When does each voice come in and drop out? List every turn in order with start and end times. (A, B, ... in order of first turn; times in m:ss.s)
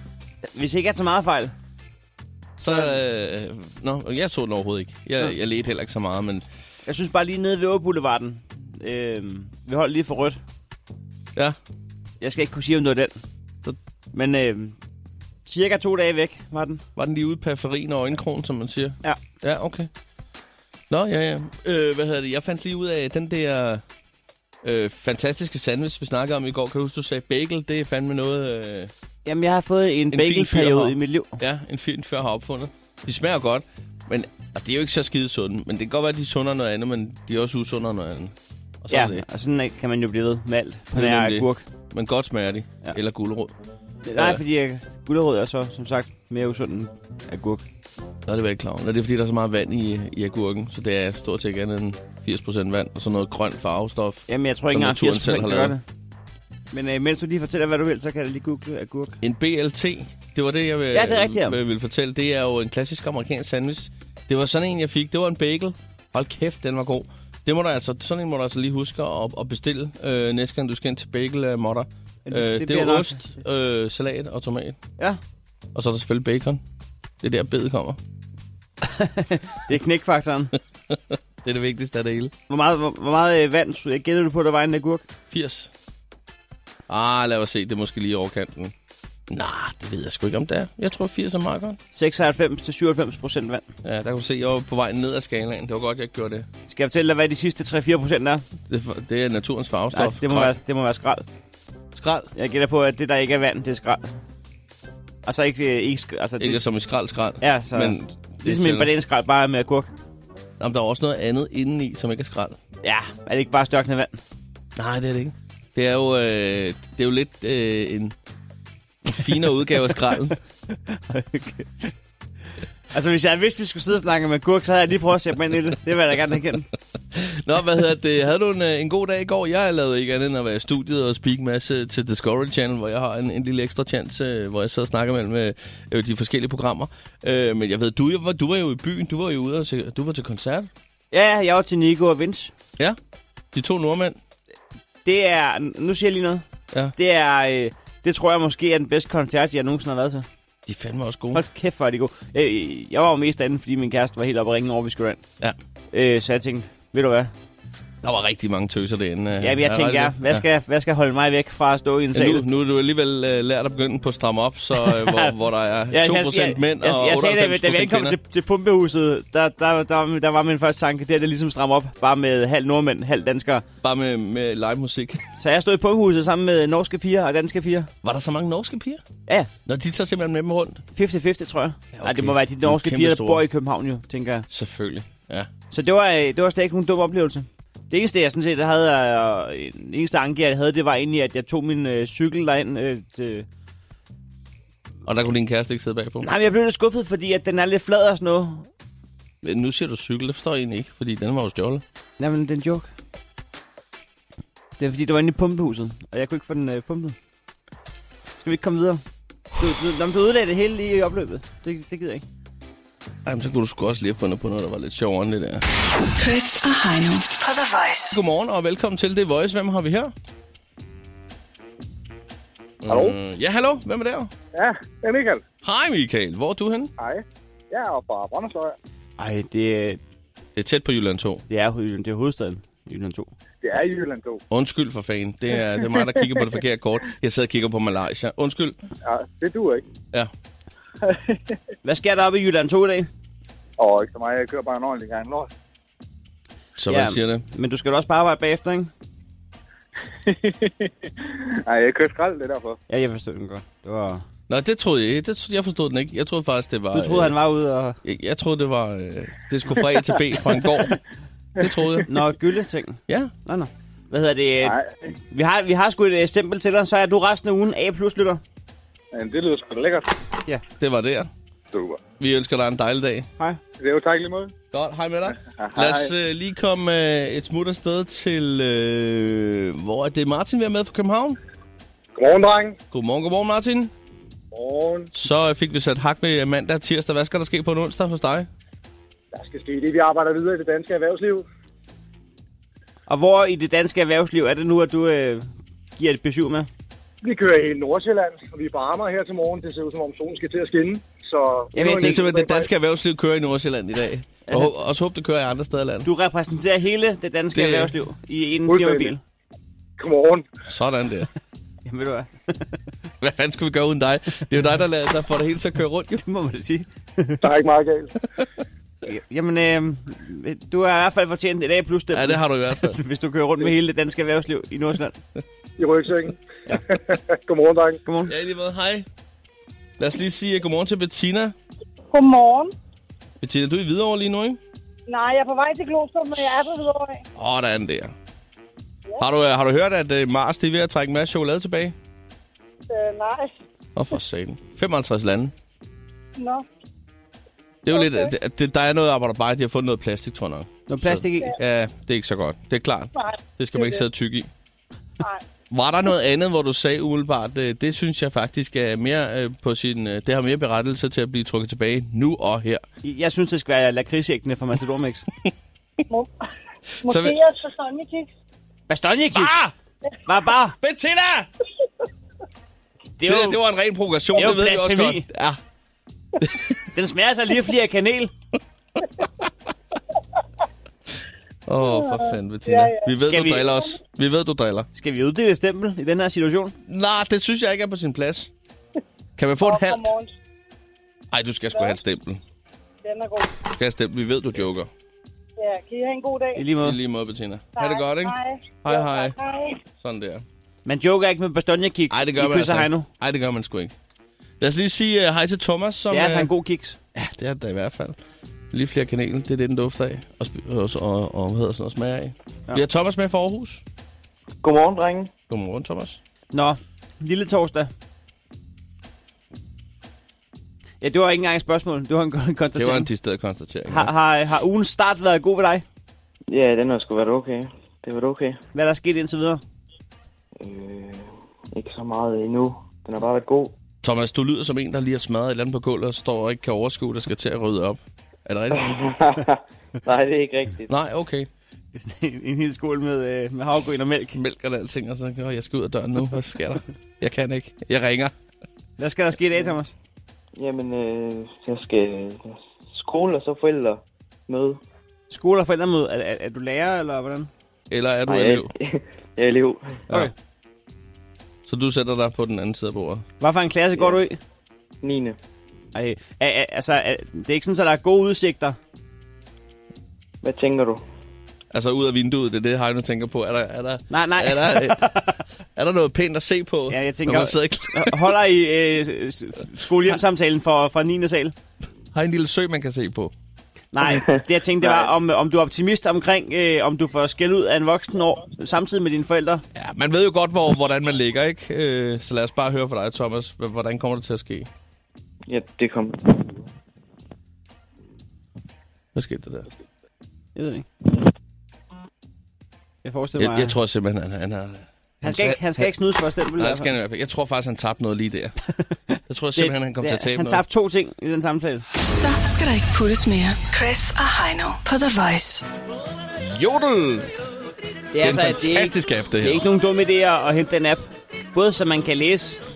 0:00.5-0:01.5 A
0:02.6-0:06.4 B
0:06.8-0:10.4 A
0:12.2-0:13.2 A
0:14.1-0:14.8 A
0:15.5-0:16.8 A
0:17.0-0:19.9 B
0:20.9-0:23.8 B
0:24.6-0:28.9 B
0:29.2-0:31.4 A
0:30.1-0:39.2 B
0:38.9-0:41.6 A
0:40.9-0:43.5 B
0:44.0-0:47.6 A
0:44.2-0:44.4 B
0:48.2-0:55.8 B
0:54.3-0:55.8 A
0:56.7-0:59.2 A
0:59.2-1:14.8 B
1:00.9-1:01.6 A
1:12.2-1:13.2 A
1:15.7-1:16.6 B
1:17.2-1:18.0 B
1:18.8-1:20.5 A
1:20.9-1:22.3 B
1:22.5-1:25.1 A
1:25.3-1:25.7 B
1:26.9-1:28.7 B
1:29.3-1:31.8 B
1:31.9-1:33.7 A
1:33.8-1:36.5 B
1:36.7-1:38.4 A
1:38.7-1:40.5 B
1:39.9-1:41.2 A
1:41.9-1:42.3 B
1:42.3-1:44.1 A
1:45.2-1:46.6 A
1:46.4-1:48.9 B
1:47.4-1:49.9 A
1:50.6-1:52.6 B
1:52.8-1:54.2 A
1:54.8-1:58.1 B
1:59.0-2:00.4 B
2:00.9-2:01.9 A
2:02.9-2:06.7 A
2:07.1-2:20.7 B
2:21.1-2:22.5 A
2:23.5-2:24.2 B
2:25.0-2:26.4 A
2:26.9-2:30.3 A
2:30.6-2:31.4 B
2:31.3-2:35.2 A
2:35.9-2:37.3 A
2:38.0-2:40.4 B
2:39.4-2:42.4 A
2:42.1-2:48.2 B
2:44.8-2:45.3 A
2:45.9-2:53.6 A
2:53.8-2:55.2 B
2:55.4-2:57.9 A
2:58.0-2:59.0 B
2:59.6-3:00.8 B
3:00.9-3:04.5 A
3:01.9-3:03.4 B
3:04.5-3:05.5 B
3:05.7-3:13.5 A
3:15.0-3:16.3 B
3:16.2-3:18.7 A
3:19.4-3:21.8 B
3:22.2-3:22.9 A
3:24.8-3:27.2 A
3:28.4-3:29.0 A
3:29.6-3:32.2 A
3:33.2-3:35.6 B
3:36.2-3:38.2 C
3:38.1-3:40.1 B
3:42.8-3:44.3 B
3:42.9-3:43.1 D
3:44.5-3:45.4 D
3:45.6-3:46.9 B
3:47.0-3:48.7 D
3:49.2-3:50.0 A
3:50.6-3:51.4 B
3:51.5-3:53.3 A
3:53.6-3:54.4 D
3:54.5-3:58.8 B
3:59.0-3:59.8 D
4:01.0-4:01.4 D
4:01.8-4:03.1 A
4:03.8-4:05.5 D
4:06.8-4:07.4 B
4:06.8-4:08.9 A
4:10.2-4:12.8 D
4:12.9-4:14.2 A
4:14.5-4:17.4 B
4:16.9-4:18.0 A
4:18.0-4:21.0 B
4:21.6-4:22.1 B
4:22.1-4:24.8 A
4:23.1-4:23.3 B
4:24.6-4:25.0 D
4:25.3-4:28.4 A
4:29.1-4:30.1 D
4:30.8-4:31.3 B
4:31.7-4:32.0 D
4:32.2-4:33.3 B
4:33.8-4:34.5 D
4:34.7-4:41.4 B
4:35.4-4:36.1 D
4:42.2-4:42.8 D
4:42.9-4:43.9 B
4:44.5-4:45.1 D
4:45.1-4:48.5 B
4:49.3-4:51.4 D
4:53.1-4:56.7 A
4:57.2-5:02.7 D
5:01.7-5:02.2 A
5:01.8-5:06.1 B
5:04.5-5:04.7 A
5:06.0-5:09.2 A
5:07.5-5:07.9 B
5:08.6-5:09.1 D
5:10.0-5:10.4 D
5:10.7-5:11.3 B
5:11.8-5:12.8 A
5:13.2-5:16.2 B
5:16.2-5:17.4 A
5:17.4-5:18.2 D
5:19.0-5:25.2 A
5:22.1-5:23.0 B
5:25.8-5:28.0 D
5:28.0-5:28.3 A
5:28.3-5:29.1 B
5:30.0-5:31.5 B
5:32.1-5:32.7 E
5:33.4-5:34.6 B
5:35.1-5:37.2 E
5:37.4-5:38.1 B
5:39.2-5:41.9 B
5:42.9-5:43.5 E
5:43.9-5:45.5 B
5:46.4-5:46.6 E
5:47.8-5:54.5 B
5:47.9-5:48.3 E
5:50.9-5:51.5 A
5:53.1-5:54.0 E
5:55.7-6:02.8 B
6:03.0-6:05.2 A
6:06.1-6:06.4 E
6:07.0-6:07.4 B
6:07.0-6:08.3 E
6:08.9-6:09.6 A
6:09.3-6:09.7 B
6:10.2-6:10.8 A
6:10.8-6:11.5 B
6:13.2-6:13.6 A
6:13.2-6:15.6 B
6:14.4-6:15.2 A
6:16.4-6:16.7 B
6:16.9-6:18.3 A
6:21.7-6:24.9 B
6:21.8-6:23.1 E
6:23.2-6:23.7 A
6:23.6-6:24.0 E
6:24.9-6:26.8 A
6:26.9-6:28.5 B
6:29.4-6:30.1 B
6:29.6-6:30.3 E
6:31.3-6:32.4 B
6:33.0-6:33.6 E
6:33.6-6:34.9 B
6:35.6-6:36.6 E
6:36.6-6:37.0 A
6:36.8-6:39.4 B
6:37.8-6:39.8 E
6:39.9-6:40.4 B
6:40.8-6:43.1 A
6:42.1-6:43.9 B
6:44.6-6:46.5 B
6:46.1-6:47.0 A
6:47.1-6:48.2 B
6:48.7-6:53.8 B
6:54.6-6:55.3 F
6:55.5-6:56.2 B
6:56.5-6:57.9 A
7:01.0-7:03.1 A
7:02.8-7:04.1 B
7:03.9-7:05.8 A
7:06.5-7:08.6 F
7:08.7-7:09.6 A
7:10.6-7:13.7 F
7:14.0-7:19.0 B
7:18.8-7:20.9 F
7:20.9-7:21.5 B
7:21.9-7:24.4 A
7:24.3-7:28.3 B
7:29.0-7:29.9 A
7:30.6-7:34.8 F
7:35.3-7:37.5 A
7:37.9-7:38.7 B
7:38.2-7:40.0 F
7:41.6-7:43.2 B
7:43.4-7:44.4 A
7:45.0-7:45.4 F
7:45.9-7:48.8 A
7:50.4-7:51.0 F
7:51.7-7:55.2 B
7:54.1-7:55.4 A
7:55.8-7:58.3 B
7:56.9-8:01.5 A
8:02.1-8:03.3 B
8:03.9-8:09.6 A
8:04.0-8:05.0 F
8:09.7-8:14.7 B
8:15.4-8:16.7 F
8:19.1-8:19.7 B
8:20.6-8:20.9 A
8:23.0-8:23.8 A
8:23.4-8:25.9 B
8:25.2-8:26.9 A
8:26.6-8:28.6 B
8:29.1-8:31.9 A
8:29.3-8:30.6 B
8:32.0-8:35.6 C
8:36.4-8:37.3 B
8:38.1-8:42.6 A
8:38.2-8:39.7 B